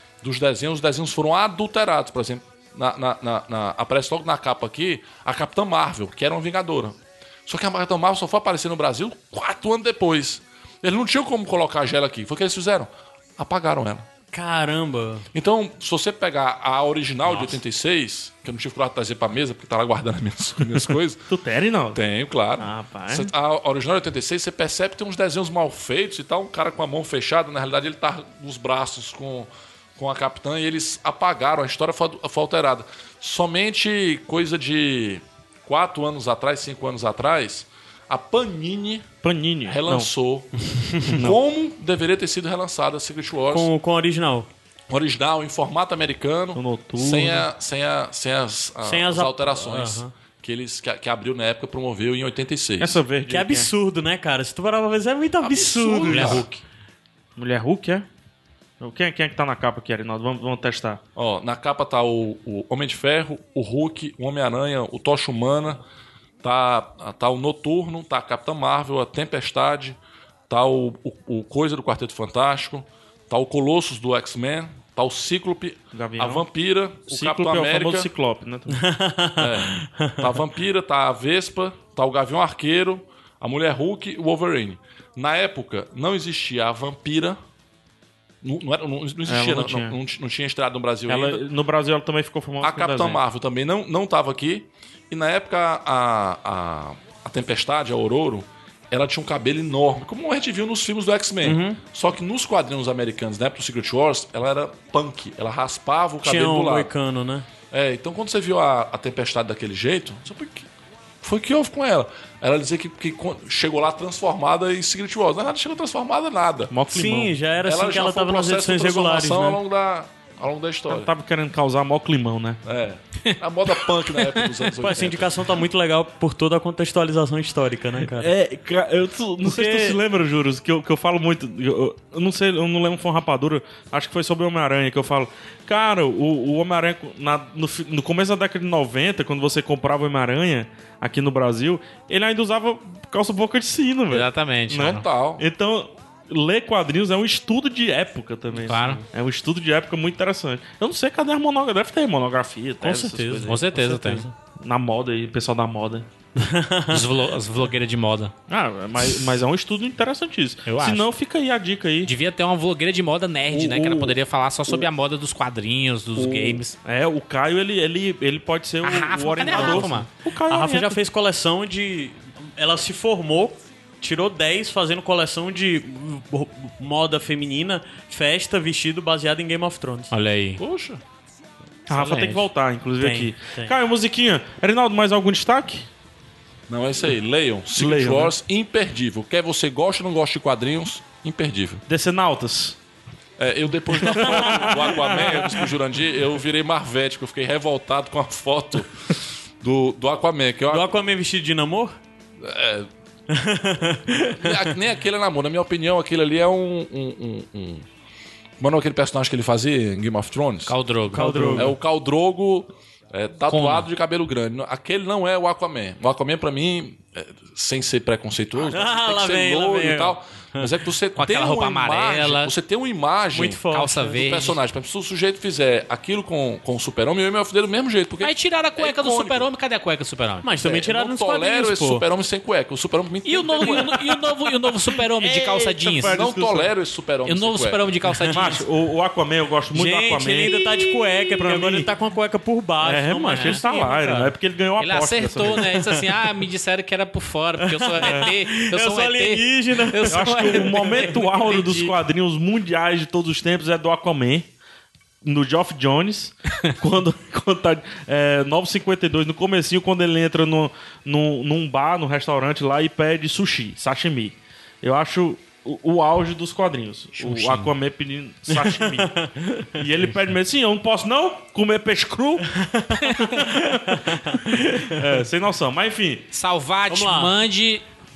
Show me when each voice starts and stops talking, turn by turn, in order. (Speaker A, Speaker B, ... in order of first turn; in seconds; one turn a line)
Speaker A: 0.2-14.1
Speaker B: 14.3-15.2
Speaker A: 15.3-21.2
Speaker C: 17.2-17.6
Speaker D: 21.3-22.0
Speaker A: 21.9-39.1
Speaker D: 22.6-23.3
Speaker D: 39.2-40.1
Speaker A: 39.6-43.7
Speaker B: 43.5-44.5
Speaker A: 44.9-53.0
Speaker D: 46.5-47.5
Speaker B: 48.8-50.1
Speaker D: 52.8-53.7
Speaker B: 53.3-56.4
Speaker A: 55.4-56.6
Speaker C: 56.0-56.5
Speaker D: 57.4-58.1
Speaker D: 58.8-61.0
Speaker A: 61.1-65.8
Speaker A: 66.4-70.0
Speaker A: 70.5-78.1
Speaker D: 75.9-76.5
Speaker D: 77.1-78.9
Speaker B: 78.7-80.4
Speaker A: 79.4-87.4
Speaker A: 88.4-91.4
Speaker D: 89.2-90.0
Speaker D: 91.1-93.2
Speaker A: 92.6-106.9
Speaker B: 101.4-101.8
Speaker B: 106.2-107.5
Speaker A: 107.7-110.7
Speaker A: 111.2-116.7
Speaker D: 116.7-117.4
Speaker B: 116.9-119.6
Speaker A: 117.6-121.1
Speaker D: 120.9-122.6
Speaker A: 122.6-125.4
Speaker C: 123.2-124.6
Speaker B: 124.8-128.3
Speaker D: 128.0-153.6
Speaker B: 129.4-130.0
Speaker C: 144.1-145.0
Speaker A: 144.8-145.4
Speaker C: 148.6-149.0
Speaker B: 152.8-154.3
Speaker C: 153.4-154.2
Speaker D: 154.6-156.1
Speaker B: 156.3-157.1
Speaker C: 156.9-158.3
Speaker D: 158.5-162.1
Speaker C: 160.7-161.1
Speaker C: 162.0-166.8
Speaker D: 163.5-164.2
Speaker D: 166.2-171.0
Speaker C: 168.8-170.1
Speaker B: 169.5-180.1
Speaker C: 180.1-180.6
Speaker A: 180.6-181.0
Speaker D: 181.9-185.9
Speaker B: 182.0-182.4
Speaker C: 182.1-182.3
Speaker B: 183.0-183.7
Speaker A: 186.7-191.8
Speaker D: 187.7-188.3
Speaker D: 191.9-192.8
Speaker A: 193.4-200.9
Speaker D: 193.9-195.7
Speaker B: 200.7-202.0
Speaker A: 202.4-202.9
Speaker B: 203.3-204.7
Speaker A: 204.3-207.8
Speaker A: 208.6-210.7
Speaker C: 210.7-211.6
Speaker B: 211.1-211.7
Speaker D: 211.1-211.7
Speaker A: 211.6-223.6
Speaker C: 213.5-213.9
Speaker B: 218.7-220.7
Speaker C: 221.2-222.5
Speaker B: 223.3-224.3
Speaker C: 223.7-224.6
Speaker A: 224.1-229.5
Speaker C: 228.2-230.5
Speaker B: 230.4-232.0
Speaker A: 230.6-234.0
Speaker C: 233.2-236.2
Speaker D: 233.6-234.3
Speaker D: 234.9-236.7
Speaker A: 236.0-237.9
Speaker C: 237.2-238.6
Speaker D: 238.3-241.9
Speaker B: 239.7-244.3
Speaker D: 242.8-245.8
Speaker C: 243.3-243.7
Speaker C: 244.8-251.9
Speaker B: 247.6-251.0
Speaker D: 248.0-248.3
Speaker D: 250.1-254.5
Speaker D: 255.2-272.5
Speaker C: 267.1-267.7
Speaker B: 268.5-269.8
Speaker B: 272.5-275.0
Speaker C: 273.0-273.4
Speaker D: 273.3-276.3
Speaker C: 276.3-277.8
Speaker B: 276.9-277.3